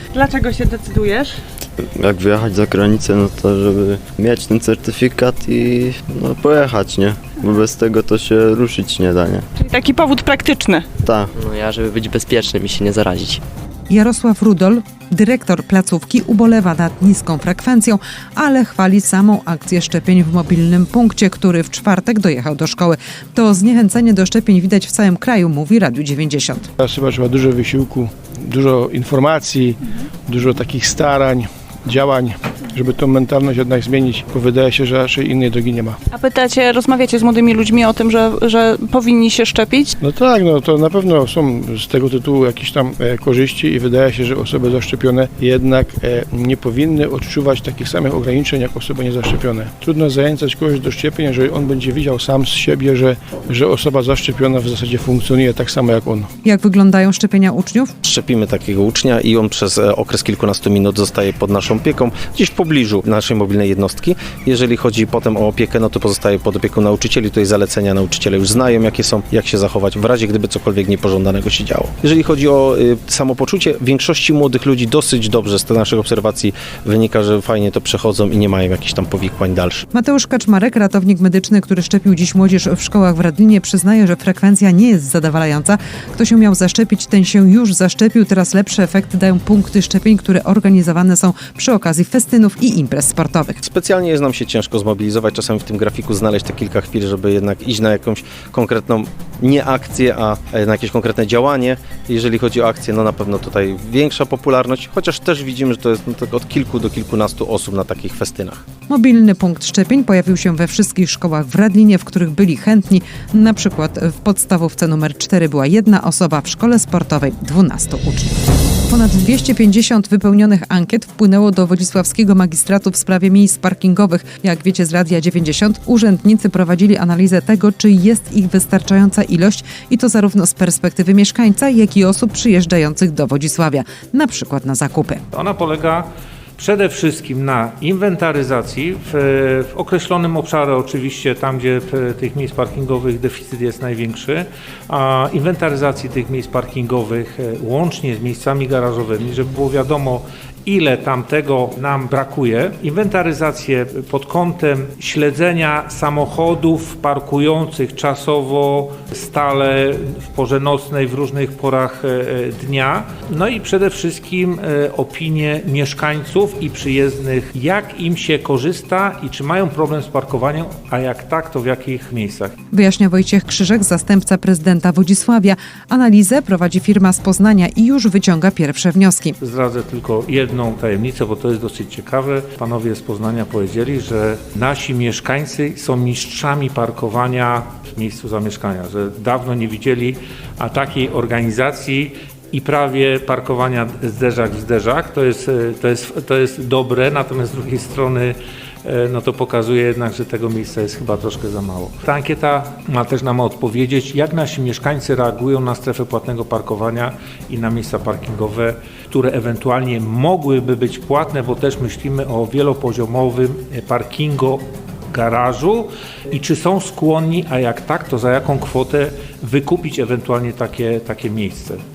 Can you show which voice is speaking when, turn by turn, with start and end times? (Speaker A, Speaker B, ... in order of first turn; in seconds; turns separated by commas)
Speaker A: 0.1-1.4, Speaker B: 1.8-9.5, Speaker A: 9.6-10.9, Speaker B: 11.0-11.3, Speaker C: 11.3-13.4, Speaker D: 13.9-26.7, Speaker E: 26.8-36.0, Speaker A: 36.1-39.9, Speaker E: 40.0-56.3, Speaker D: 56.4-57.9, Speaker F: 58.0-79.8, Speaker D: 79.9-93.6, Speaker F: 93.6-108.6, Speaker D: 108.9-135.2, Speaker G: 135.3-136.1, Speaker G: 136.6-172.5, Speaker D: 172.7-179.3, Speaker G: 179.4-221.8